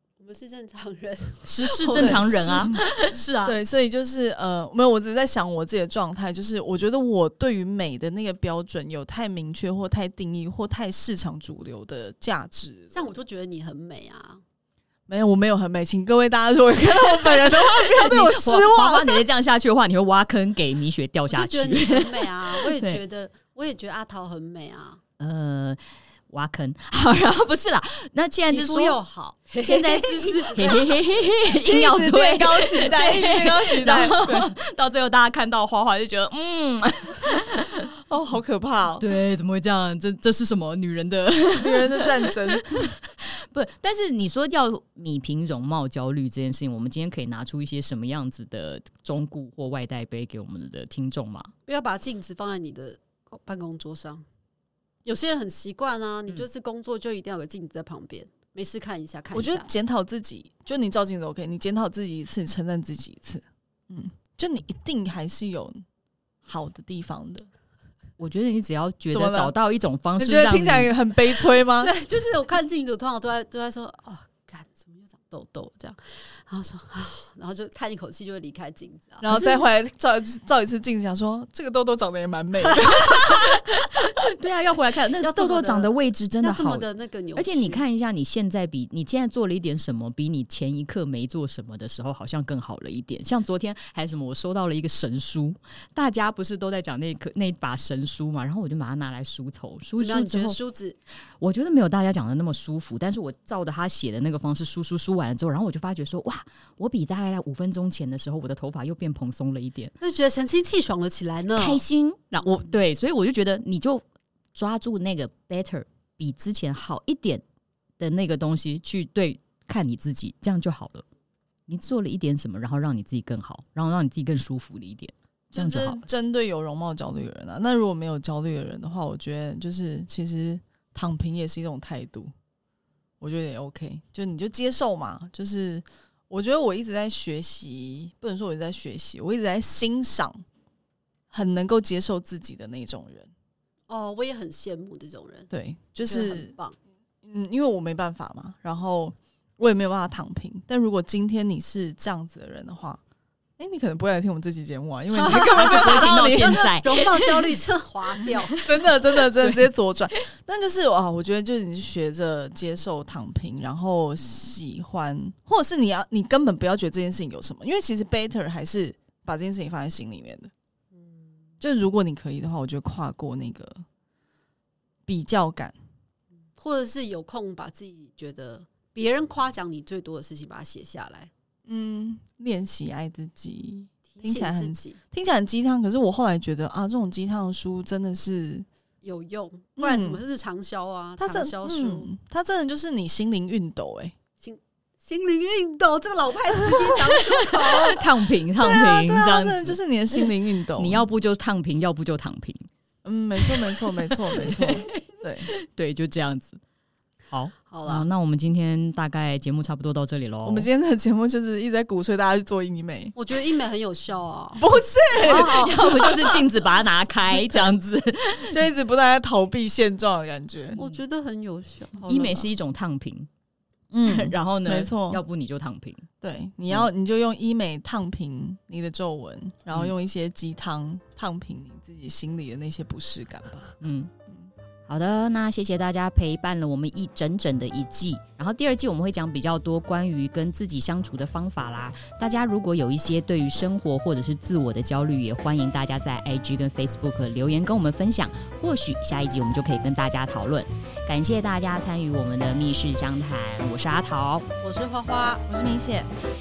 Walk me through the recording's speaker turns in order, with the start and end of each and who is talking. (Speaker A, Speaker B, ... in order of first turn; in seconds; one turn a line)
Speaker A: 0.2-2.8
Speaker B: 1.4-3.6
Speaker C: 1.9-2.8
Speaker C: 3.4-13.1
Speaker A: 12.9-14.4
Speaker C: 15.1-19.2
Speaker B: 17.3-23.0
Speaker A: 21.3-25.0
Speaker B: 25.2-29.0
Speaker A: 28.5-31.1
Speaker B: 29.6-37.9
Speaker C: 31.6-34.5
Speaker C: 38.0-39.0
Speaker B: 39.0-51.5
Speaker C: 41.6-43.0
Speaker A: 51.7-54.2
Speaker A: 55.0-59.7
Speaker C: 59.3-65.8
Speaker C: 66.4-67.5
Speaker B: 68.2-70.9
Speaker C: 69.1-69.5
Speaker C: 70.2-71.9
Speaker A: 71.8-79.6
Speaker C: 79.2-83.7
Speaker B: 83.9-100.6
Speaker A: 85.2-87.8
Speaker A: 100.0-101.0
Speaker B: 101.4-109.9
Speaker A: 110.0-111.8
Speaker B: 111.5-114.0
Speaker B: 114.5-117.4
Speaker B: 118.0-121.0
Speaker B: 121.7-126.0
Speaker C: 125.5-132.3
Speaker C: 133.2-140.4
Speaker C: 141.3-143.3
Speaker A: 143.9-145.5
Speaker C: 145.5-146.6
Speaker A: 146.1-146.8
Speaker C: 147.2-153.0
Speaker C: 153.6-156.6
Speaker B: 155.2-157.6
Speaker A: 155.2-158.7
Speaker B: 158.2-158.5
Speaker C: 158.5-170.5
Speaker B: 159.1-159.7
Speaker C: 171.6-173.8
Speaker C: 175.1-175.8
Speaker A: 176.6-181.3
Speaker C: 181.7-188.7
Speaker A: 184.1-185.0
Speaker A: 189.0-192.1
Speaker C: 189.8-190.2
Speaker C: 191.2-194.2
Speaker A: 194.4-198.0
Speaker C: 196.6-198.0
Speaker B: 197.6-202.7
Speaker C: 198.6-201.1
Speaker C: 203.1-205.5
Speaker B: 203.4-206.6
Speaker B: 207.3-210.7
Speaker A: 207.7-208.1
Speaker C: 210.4-213.1
Speaker A: 213.1-216.4
Speaker C: 214.6-216.1
Speaker B: 215.3-218.6
Speaker C: 218.5-220.8
Speaker A: 220.8-222.4
Speaker C: 222.0-222.4
Speaker B: 222.1-223.3
Speaker C: 223.9-225.2
Speaker B: 224.1-226.1
Speaker C: 226.2-233.8
Speaker B: 233.8-234.1
Speaker B: 234.9-254.5
Speaker A: 254.6-255.4
Speaker C: 255.5-256.1